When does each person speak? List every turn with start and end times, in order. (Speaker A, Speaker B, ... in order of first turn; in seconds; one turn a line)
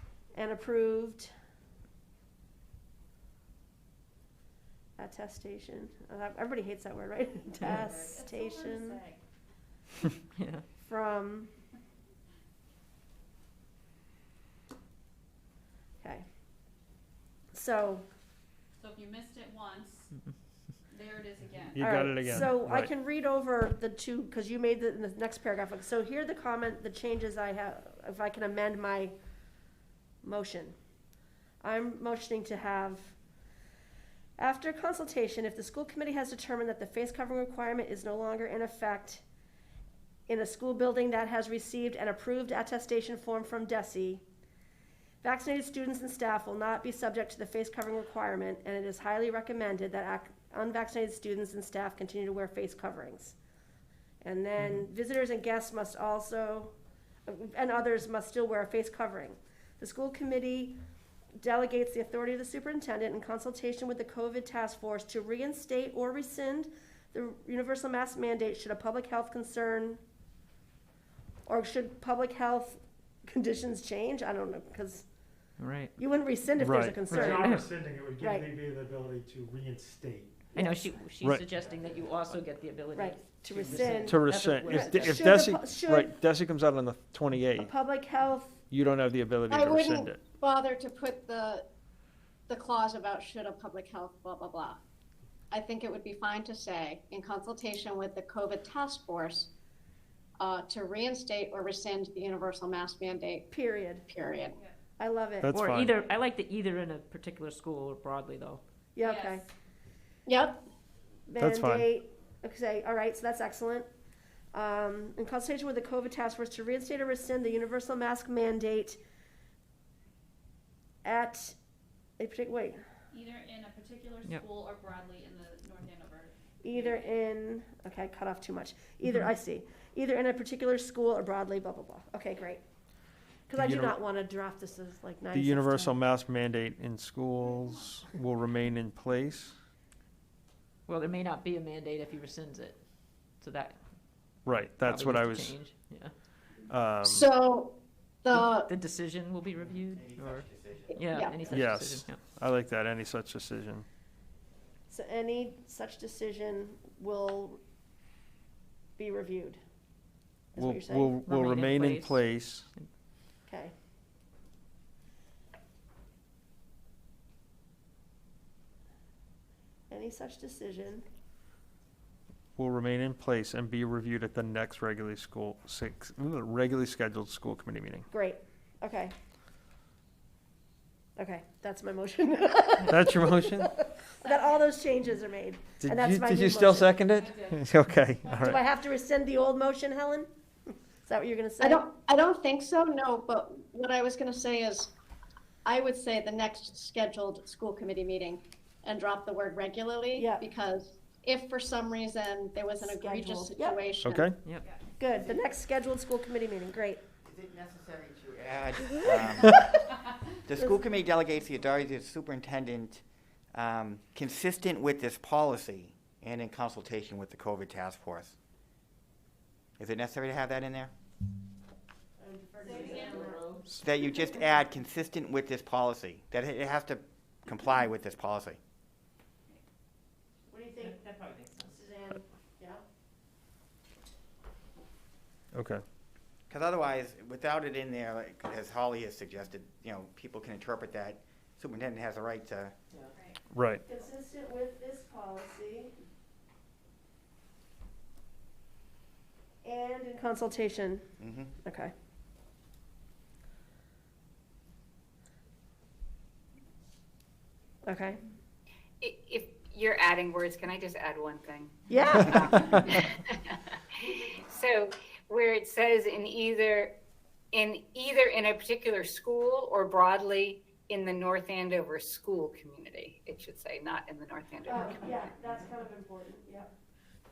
Speaker A: 0.3-1.3
Speaker A: 5.0-9.0
Speaker B: 7.6-9.2
Speaker C: 10.4-10.6
Speaker A: 10.8-11.5
Speaker A: 17.5-18.1
Speaker B: 18.8-20.1
Speaker B: 20.9-21.9
Speaker D: 21.7-22.9
Speaker A: 21.8-29.1
Speaker A: 30.2-30.7
Speaker A: 31.6-33.2
Speaker A: 34.4-39.2
Speaker A: 40.3-44.2
Speaker A: 45.2-53.4
Speaker A: 54.2-56.7
Speaker A: 57.3-60.8
Speaker A: 61.4-70.0
Speaker A: 71.5-75.1
Speaker C: 75.6-76.0
Speaker A: 76.0-77.7
Speaker D: 76.6-77.2
Speaker E: 77.0-80.5
Speaker C: 77.4-77.7
Speaker A: 78.2-78.5
Speaker C: 80.5-85.3
Speaker A: 80.6-80.9
Speaker D: 81.2-81.5
Speaker A: 82.9-86.2
Speaker D: 84.0-87.7
Speaker A: 87.6-88.6
Speaker D: 88.7-90.2
Speaker F: 89.5-91.7
Speaker F: 92.5-94.8
Speaker F: 95.5-99.5
Speaker F: 100.4-103.5
Speaker A: 103.5-104.1
Speaker F: 104.1-104.6
Speaker A: 105.0-105.5
Speaker D: 105.4-106.0
Speaker C: 105.5-108.6
Speaker A: 109.0-109.4
Speaker B: 109.0-109.5
Speaker F: 110.3-110.6
Speaker A: 111.3-113.9
Speaker D: 111.4-111.8
Speaker A: 114.5-119.0
Speaker A: 121.0-121.6
Speaker A: 122.2-122.8
Speaker B: 123.1-127.1
Speaker A: 126.6-132.6
Speaker A: 133.5-136.0
Speaker D: 133.6-134.0
Speaker D: 135.3-139.6
Speaker B: 137.4-137.9
Speaker C: 140.9-142.8
Speaker C: 143.4-143.8
Speaker D: 144.4-145.6
Speaker C: 144.8-146.1
Speaker D: 146.7-147.3
Speaker F: 147.0-148.7
Speaker C: 148.3-152.2
Speaker G: 149.9-151.6
Speaker F: 150.9-151.5
Speaker D: 151.5-153.8
Speaker A: 154.9-157.6
Speaker A: 159.0-159.6
Speaker A: 160.5-161.2
Speaker D: 160.6-162.7
Speaker C: 161.2-162.2
Speaker A: 163.5-163.7
Speaker A: 169.9-171.1
Speaker D: 172.6-178.1
Speaker A: 178.1-179.1
Speaker A: 181.2-187.0
Speaker D: 182.9-183.7
Speaker B: 184.2-184.7
Speaker D: 185.8-188.6
Speaker B: 187.2-187.7
Speaker B: 188.2-188.6
Speaker A: 188.3-191.9
Speaker F: 191.6-194.9
Speaker F: 195.7-204.3
Speaker A: 200.2-200.5
Speaker A: 202.8-203.8
Speaker D: 204.0-204.4
Speaker A: 205.0-207.0
Speaker G: 207.2-209.8
Speaker G: 210.4-218.4
Speaker G: 219.8-220.9
Speaker A: 222.2-223.4
Speaker B: 222.6-223.3
Speaker C: 223.0-223.6
Speaker G: 223.8-228.6
Speaker A: 230.5-231.0
Speaker C: 230.8-231.8
Speaker A: 231.6-232.8
Speaker D: 235.5-235.8
Speaker G: 236.5-242.7
Speaker D: 243.5-243.8
Speaker A: 243.8-245.9
Speaker A: 249.6-251.9
Speaker G: 251.2-251.5
Speaker A: 257.9-258.2
Speaker H: 259.0-261.8
Speaker A: 261.9-262.8
Speaker H: 262.3-266.9
Speaker H: 267.5-275.1
Speaker A: 274.7-276.7